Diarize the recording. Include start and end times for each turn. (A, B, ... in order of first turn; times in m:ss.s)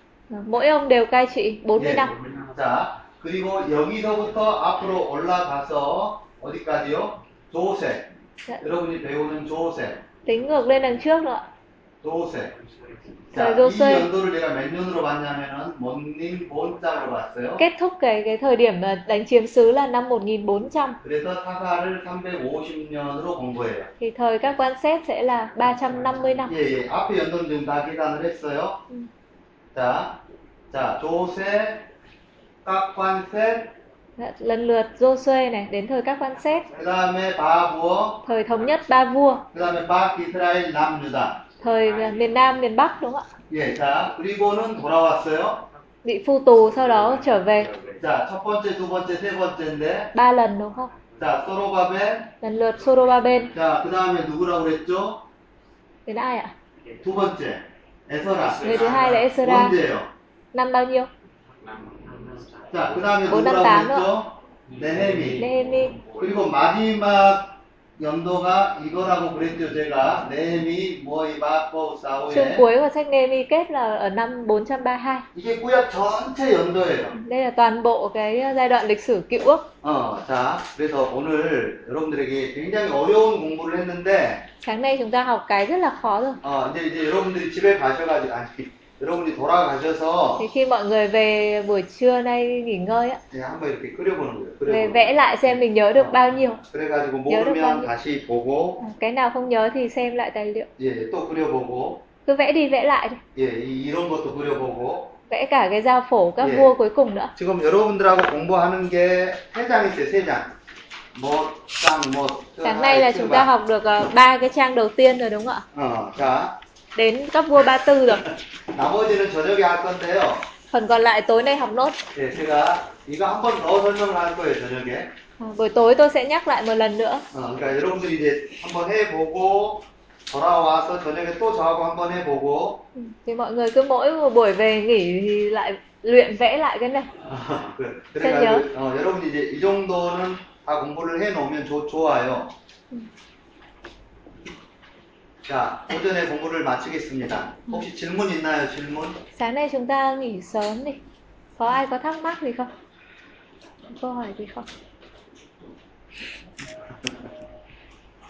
0:00.3-0:02.1 A
0:01.8-0:08.1 B
0:02.1-0:02.5 C
0:08.6-0:10.0 B
0:10.2-0:11.5 A
0:12.0-0:12.5 B
0:12.6-0:13.2 C
0:13.3-0:17.6 B
0:13.3-0:14.1 A
0:17.6-0:21.0 A
0:21.0-0:23.9 B
0:24.0-0:26.5 A
0:26.4-0:28.8 B
0:29.7-0:30.2 B
0:30.7-0:31.8 B
0:32.6-0:33.7 B
0:34.2-0:36.7 A
0:36.8-0:38.2 B
0:38.2-0:39.5 A
0:39.5-0:41.4 B
0:41.5-0:42.6 C
0:41.6-0:43.3 A
0:43.5-0:45.7 B
0:46.0-0:47.7 A
0:46.7-0:48.0 C
0:47.8-0:50.1 B
0:50.1-0:50.9 A
0:50.9-0:51.2 C
0:51.2-0:52.3 B
0:52.4-0:53.5 A
0:53.5-0:55.2 B
0:56.0-0:56.5 A
0:57.0-1:00.1 B
0:58.4-0:58.8 C
0:58.6-0:59.7 A
1:00.5-1:01.1 A
1:01.6-1:02.9 C
1:02.7-1:05.5 B
1:03.3-1:04.1 A
1:04.7-1:06.4 C
1:05.4-1:06.0 A
1:06.2-1:12.6 B
1:12.3-1:15.2 A
1:15.3-1:17.2 B
1:17.2-1:19.7 A
1:19.8-1:24.4 B
1:24.6-1:26.4 A
1:26.4-1:30.4 B
1:30.4-1:33.2 A
1:33.3-1:38.8 B
1:34.7-1:36.6 A
1:37.3-1:37.9 A
1:38.8-1:40.7 A
1:40.8-1:42.0 B
1:42.2-1:43.2 A
1:43.3-1:45.1 B
1:45.3-1:47.3 A
1:46.4-1:46.7 B
1:47.3-1:50.5 B
1:51.1-1:53.5 B
1:52.6-1:55.6 A
1:55.7-1:56.5 B
1:56.9-1:58.2 A
1:58.7-2:00.4 B
2:00.7-2:02.0 A
2:02.1-2:05.1 B
2:05.4-2:07.2 A
2:07.3-2:12.8 B
2:12.9-2:17.1 A
2:17.2-2:22.5 B
2:18.2-2:18.6 A
2:25.4-2:29.2 B
2:29.3-2:31.0 A
2:31.6-2:32.7 A
2:33.9-2:34.7 A